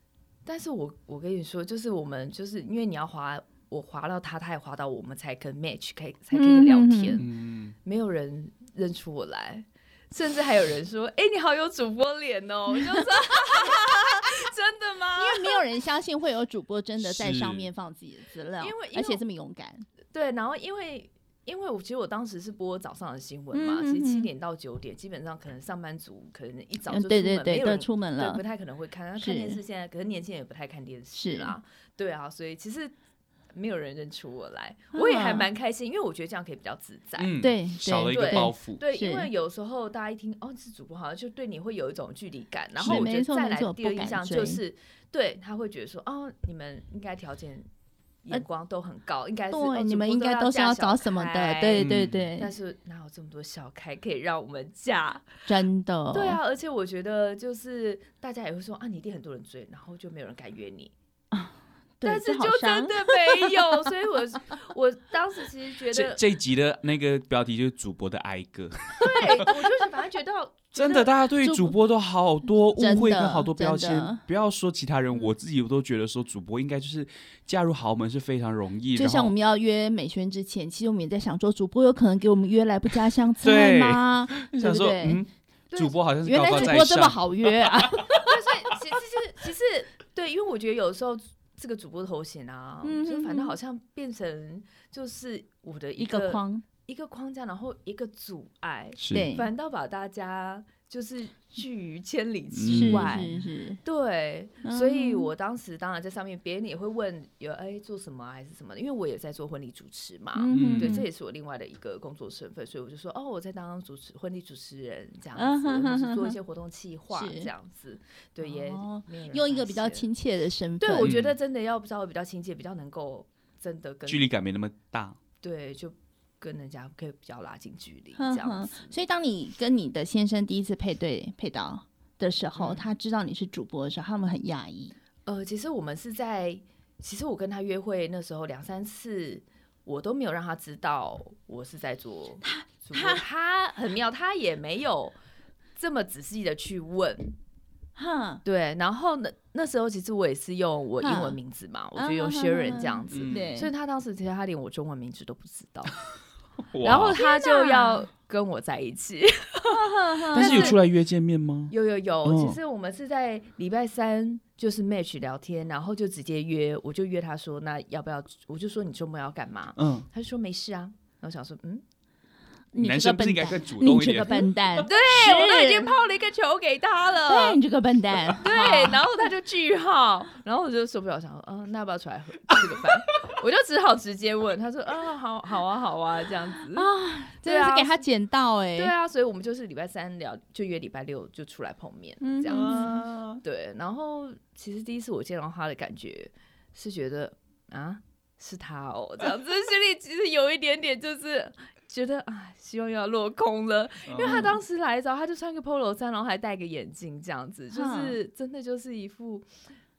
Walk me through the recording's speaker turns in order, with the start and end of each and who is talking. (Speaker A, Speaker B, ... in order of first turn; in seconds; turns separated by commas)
Speaker A: 0.5-7.3, Speaker B: 6.3-7.2, Speaker C: 7.2-7.8, Speaker A: 7.8-15.6, Speaker B: 15.2-19.9, Speaker C: 17.0-17.7, Speaker A: 18.6-19.2, Speaker A: 20.1-32.9, Speaker B: 23.5-24.3, Speaker B: 26.9-28.4, Speaker B: 29.2-29.6, Speaker B: 31.1-31.6, Speaker A: 33.5-37.4, Speaker B: 35.0-35.5, Speaker C: 37.2-38.8, Speaker B: 37.4-39.3, Speaker A: 38.1-47.7, Speaker B: 42.8-44.6, Speaker C: 42.8-43.1, Speaker A: 48.2-55.3, Speaker B: 49.5-52.5, Speaker C: 51.8-52.3, Speaker B: 55.5-56.4, Speaker A: 56.1-60.9, Speaker B: 61.3-63.7, Speaker A: 62.0-66.2, Speaker C: 65.9-69.5, Speaker A: 69.0-71.1, Speaker C: 70.7-79.3, Speaker B: 71.4-71.8, Speaker B: 72.8-74.2, Speaker B: 79.0-85.2, Speaker C: 83.4-88.1, Speaker A: 85.7-86.0, Speaker B: 86.2-88.2, Speaker A: 88.2-120.1, Speaker B: 92.8-93.5, Speaker B: 96.0-96.7, Speaker C: 99.0-99.3, Speaker B: 99.1-99.5, Speaker C: 102.5-103.5, Speaker B: 102.7-103.8, Speaker B: 104.6-105.3, Speaker B: 110.4-111.1, Speaker C: 110.5-111.0, Speaker B: 115.4-116.4, Speaker B: 117.1-117.5, Speaker B: 118.4-121.2, Speaker A: 120.8-124.3, Speaker C: 121.0-121.4, Speaker C: 124.1-125.2, Speaker A: 125.4-128.9, Speaker B: 128.2-134.9, Speaker A: 132.6-132.8, Speaker A: 135.3-145.2, Speaker B: 142.4-143.2, Speaker A: 145.8-147.4, Speaker B: 148.0-148.4, Speaker A: 148.4-155.9, Speaker B: 151.0-151.4, Speaker B: 152.0-153.7, Speaker C: 153.1-153.5, Speaker C: 156.7-157.2, Speaker A: 156.8-159.8, Speaker B: 157.1-158.0, Speaker B: 159.7-160.8, Speaker A: 160.3-160.8, Speaker C: 160.3-161.7, Speaker A: 161.7-171.8, Speaker C: 162.2-162.6, Speaker C: 169.8-170.1, Speaker B: 172.7-176.0, Speaker C: 172.8-174.5, Speaker A: 174.8-177.6, Speaker B: 177.3-179.1, Speaker A: 178.4-186.9, Speaker B: 186.7-188.9, Speaker A: 187.4-188.0, Speaker A: 188.8-192.8, Speaker B: 192.2-193.0, Speaker C: 192.5-193.4, Speaker A: 193.4-209.5, Speaker C: 204.1-204.5, Speaker B: 204.2-204.5, Speaker B: 207.7-208.2